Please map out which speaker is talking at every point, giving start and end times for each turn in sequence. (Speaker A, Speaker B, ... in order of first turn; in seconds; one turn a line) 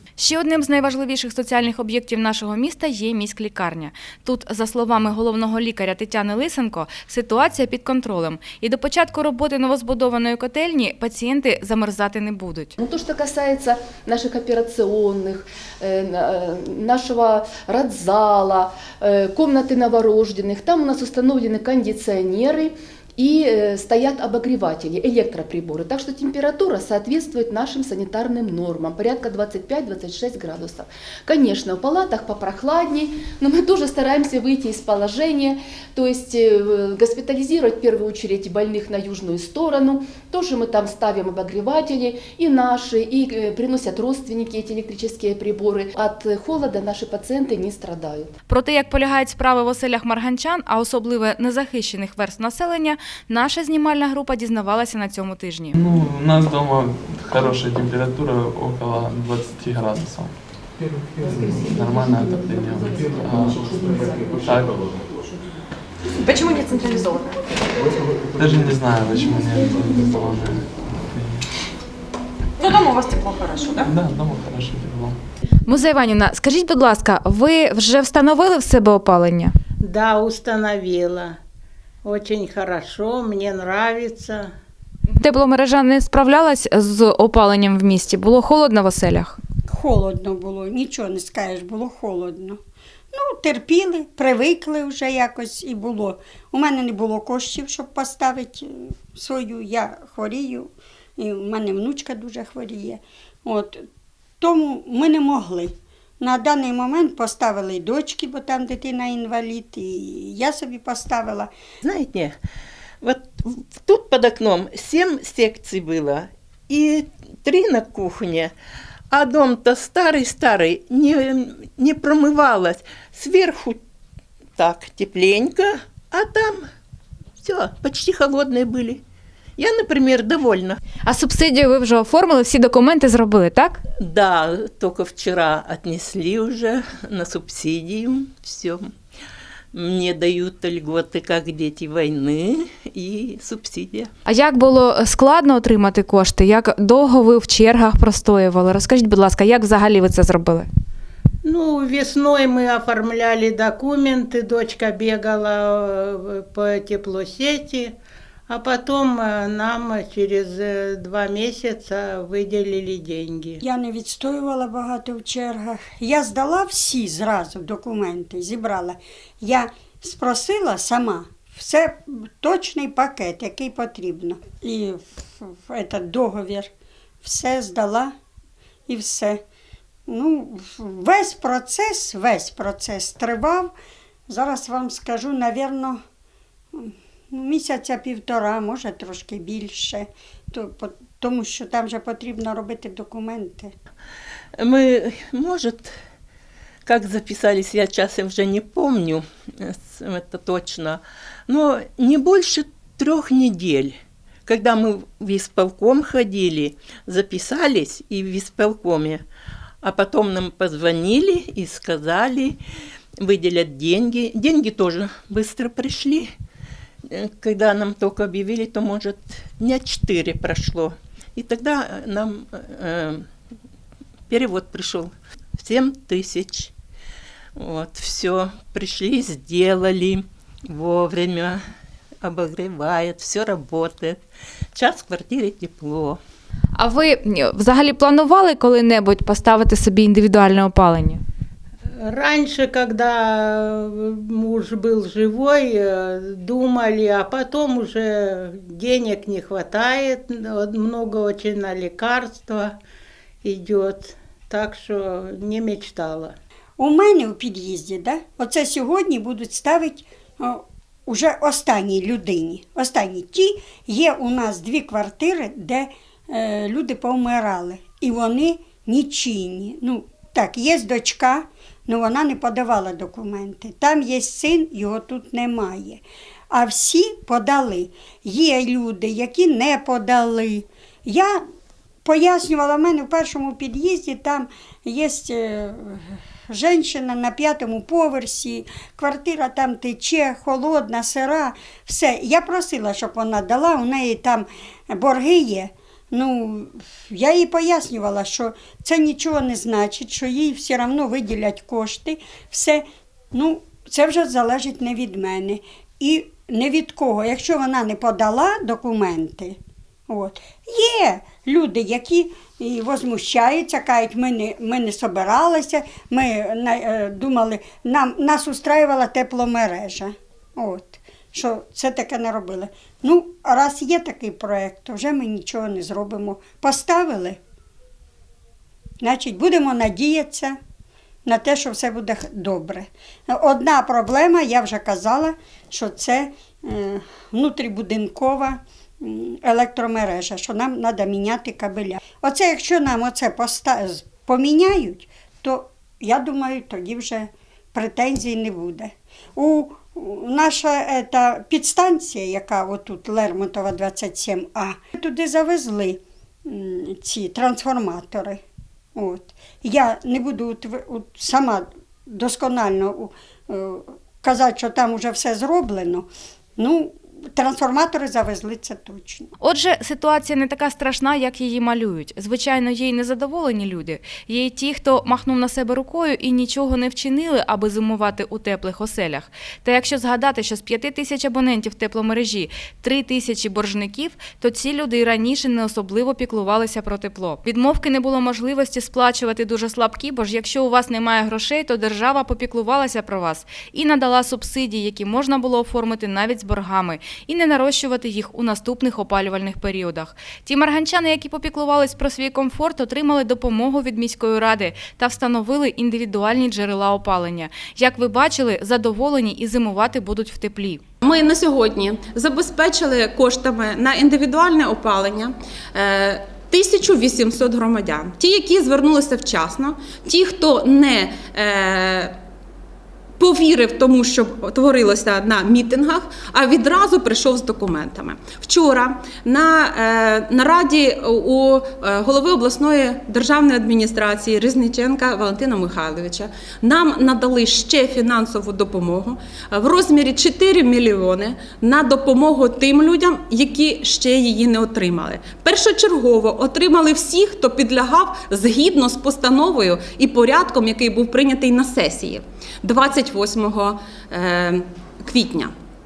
Speaker A: 0.2-12.7
Speaker B: 12.8-48.3
Speaker A: 48.5-55.8
Speaker C: 55.7-60.4
Speaker C: 61.2-63.7
Speaker B: 61.6-61.9
Speaker B: 62.8-64.6
Speaker C: 64.4-64.9
Speaker D: 66.2-67.4
Speaker C: 68.3-71.5
Speaker D: 72.6-73.9
Speaker C: 73.8-75.2
Speaker A: 75.7-79.5
Speaker E: 79.9-81.3
Speaker E: 82.1-84.4
Speaker A: 85.1-89.4
Speaker F: 89.7-92.6
Speaker F: 93.1-103.8
Speaker F: 104.4-111.5
Speaker G: 111.8-112.3
Speaker G: 113.0-118.5
Speaker G: 119.1-123.8
Speaker G: 124.6-126.7
Speaker G: 127.4-129.0
Speaker G: 129.6-130.8
Speaker A: 131.1-133.8
Speaker G: 134.0-138.9
Speaker G: 139.7-144.1
Speaker A: 144.2-150.7
Speaker E: 151.5-155.8
Speaker E: 156.5-157.8
Speaker E: 158.5-163.6
Speaker F: 163.6-176.7
Speaker F: 177.2-178.1
Speaker F: 178.9-179.4
Speaker F: 180.1-183.7
Speaker F: 184.3-186.0
Speaker F: 186.7-193.7
Speaker G: 194.6-195.9
Speaker G: 196.8-209.2
Speaker G: 209.8-212.6
Speaker G: 213.2-216.3
Speaker G: 217.1-223.2
Speaker G: 224.3-226.7
Speaker G: 227.6-231.6
Speaker G: 232.2-234.2
Speaker G: 234.7-236.2
Speaker A: 236.8-241.2
Speaker E: 242.2-243.1
Speaker E: 244.4-245.6
Speaker E: 246.5-248.0
Speaker E: 248.8-250.3
Speaker E: 250.8-252.7
Speaker E: 253.4-256.3
Speaker F: 256.8-281.4
Speaker F: 282.0-309.6
Speaker F: 310.1-327.4
Speaker F: 329.0-330.6
Speaker F: 331.3-358.4
Speaker F: 358.9-369.3
Speaker A: 369.4-410.8
Speaker H: 411.0-422.1
Speaker H: 423.2-455.5